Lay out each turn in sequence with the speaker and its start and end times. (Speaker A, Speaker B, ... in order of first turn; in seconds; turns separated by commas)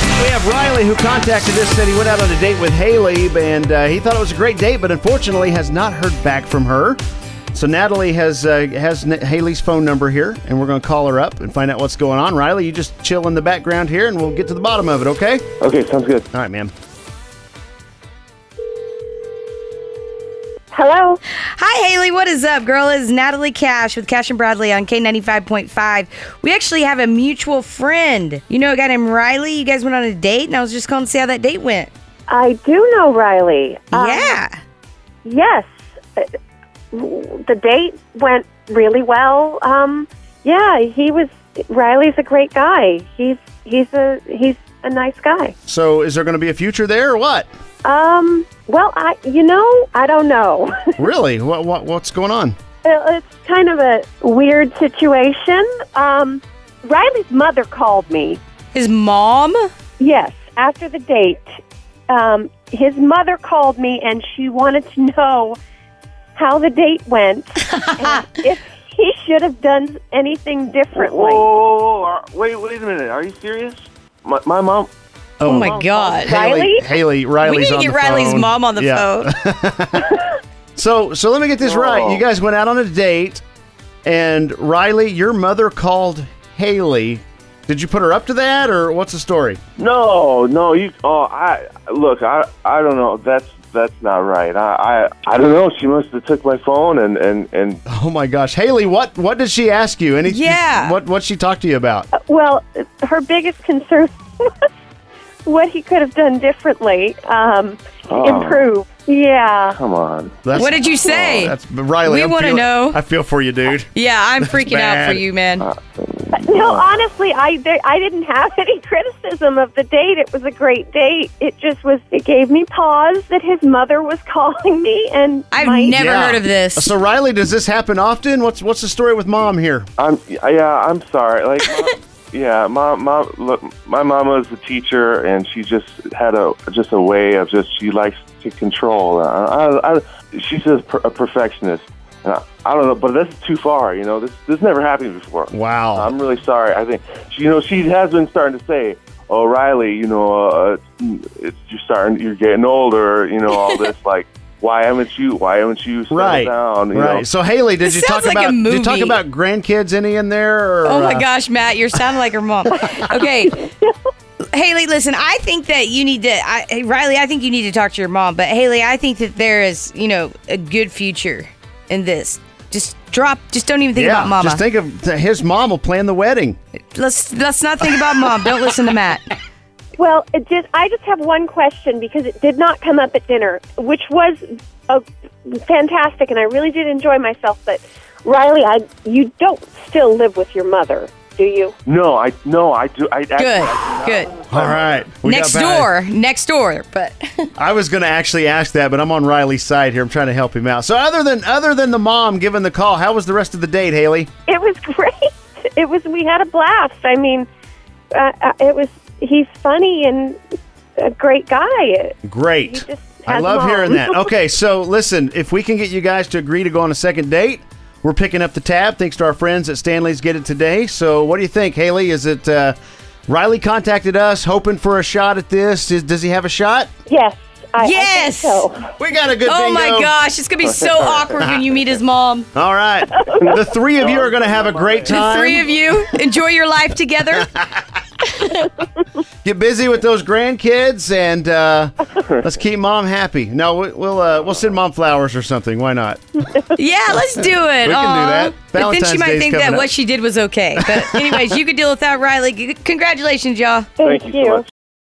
Speaker A: 0.1-7.0, Speaker A: 7.5-15.5, Speaker B: 15.6-16.2, Speaker A: 16.3-16.7, Speaker C: 20.7-21.2, Speaker D: 21.6-31.9, Speaker C: 32.3-34.4, Speaker D: 33.9-34.6, Speaker C: 35.2-35.6, Speaker C: 36.9-45.5, Speaker A: 45.7-47.5, Speaker C: 47.8-50.7, Speaker A: 51.0-52.5, Speaker C: 52.8-58.4, Speaker D: 58.7-59.7, Speaker C: 60.0-61.5, Speaker C: 62.1-65.6, Speaker C: 66.3-71.5, Speaker D: 67.7-68.2, Speaker B: 70.9-74.9, Speaker A: 75.4-80.2, Speaker D: 75.4-76.4, Speaker B: 75.4-76.3, Speaker C: 76.2-76.8, Speaker D: 77.4-79.3, Speaker A: 80.8-83.4, Speaker B: 81.6-82.2, Speaker A: 84.0-89.6, Speaker B: 89.8-97.8, Speaker A: 97.9-102.1, Speaker D: 100.2-101.0, Speaker C: 102.2-104.5, Speaker C: 105.4-109.8, Speaker B: 108.1-108.7, Speaker B: 109.7-110.4, Speaker A: 110.4-113.9, Speaker D: 110.5-113.0, Speaker D: 113.9-115.7, Speaker A: 114.4-115.2, Speaker B: 115.6-116.9, Speaker C: 116.3-126.0, Speaker D: 125.5-126.9, Speaker A: 125.9-129.9, Speaker B: 130.0-157.2, Speaker A: 145.5-146.1, Speaker A: 156.1-161.3, Speaker D: 157.8-159.2, Speaker D: 160.8-163.7, Speaker D: 164.5-174.6, Speaker A: 173.9-176.6, Speaker D: 176.9-179.3, Speaker C: 180.0-191.7, Speaker B: 191.8-195.1, Speaker D: 193.3-194.3, Speaker A: 194.5-195.9, Speaker D: 195.2-197.5, Speaker A: 197.6-204.3, Speaker C: 204.5-207.5, Speaker C: 208.1-210.4, Speaker C: 211.0-214.2, Speaker A: 212.2-226.9, Speaker C: 227.1-228.9, Speaker D: 227.8-228.6, Speaker A: 229.0-230.1, Speaker D: 229.4-232.5, Speaker B: 230.7-231.1, Speaker A: 231.3-231.6, Speaker A: 232.5-235.6, Speaker B: 233.3-235.9, Speaker D: 235.1-237.5, Speaker A: 237.3-237.8, Speaker D: 238.3-238.7, Speaker A: 239.4-246.4, Speaker D: 246.8-253.9, Speaker A: 247.8-249.9, Speaker A: 250.8-251.4, Speaker C: 254.0-254.6, Speaker B: 254.0-254.6